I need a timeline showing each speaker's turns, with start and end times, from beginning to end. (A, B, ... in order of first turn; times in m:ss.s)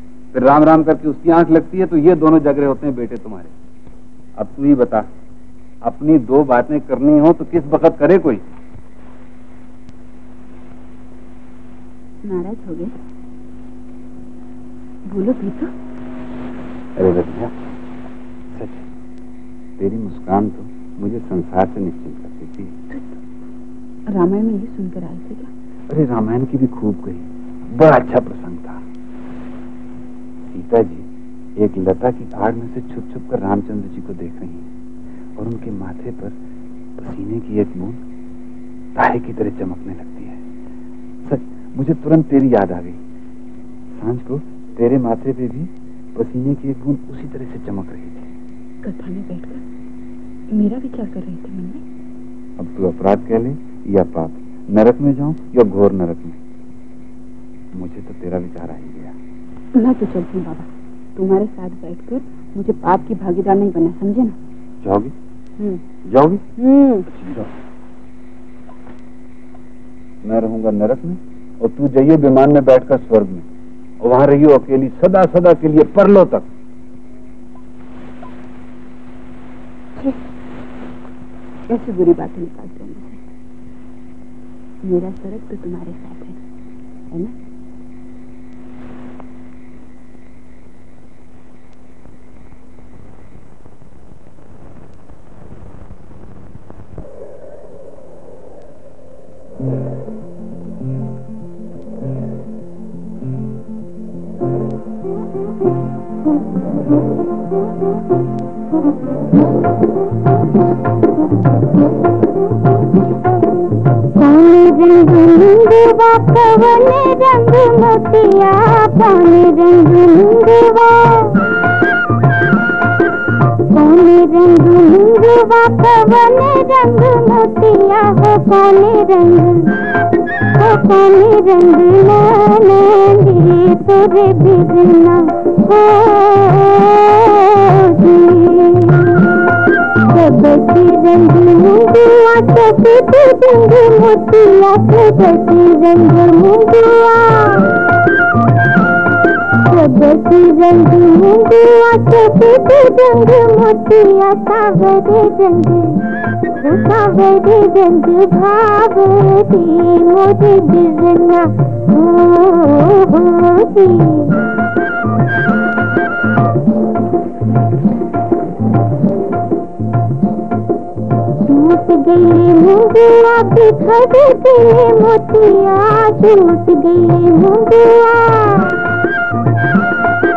0:00.3-0:03.5 A
0:04.4-0:05.1 A
0:05.8-0:08.4 A
0:12.2-0:12.9 B
0:15.1-0:15.7 B
0:17.0-0:17.5 A
0:18.5-0:18.8 A
0:19.8-0:22.8 A
0:24.1-0:25.5 B
0:25.9-0:28.8 A
0:30.5-0:34.7 A
0:35.4-0:36.4 A
0:37.0-0:38.0 A
0:38.9-0:40.4 A
0:41.2-0:43.0 A
0:43.9-0:48.3 A
0:48.8-0:49.6 B
0:50.5-0:51.8 B
0:52.6-0:56.4 A
0:57.7-0:59.2 A
0:59.7-1:04.4 B
1:04.8-1:05.1 A
1:06.0-1:06.4 A
1:06.6-1:07.0 B
1:07.1-1:07.5 A
1:10.2-1:13.4 A
1:14.0-1:16.4 A
1:21.7-1:23.2 B
1:24.8-1:26.4 B
1:54.2-2:01.4 C
2:03.7-2:09.8 C
2:10.5-2:19.1 C
2:20.0-2:27.8 C
2:29.6-2:44.4 C
2:51.4-2:58.8 C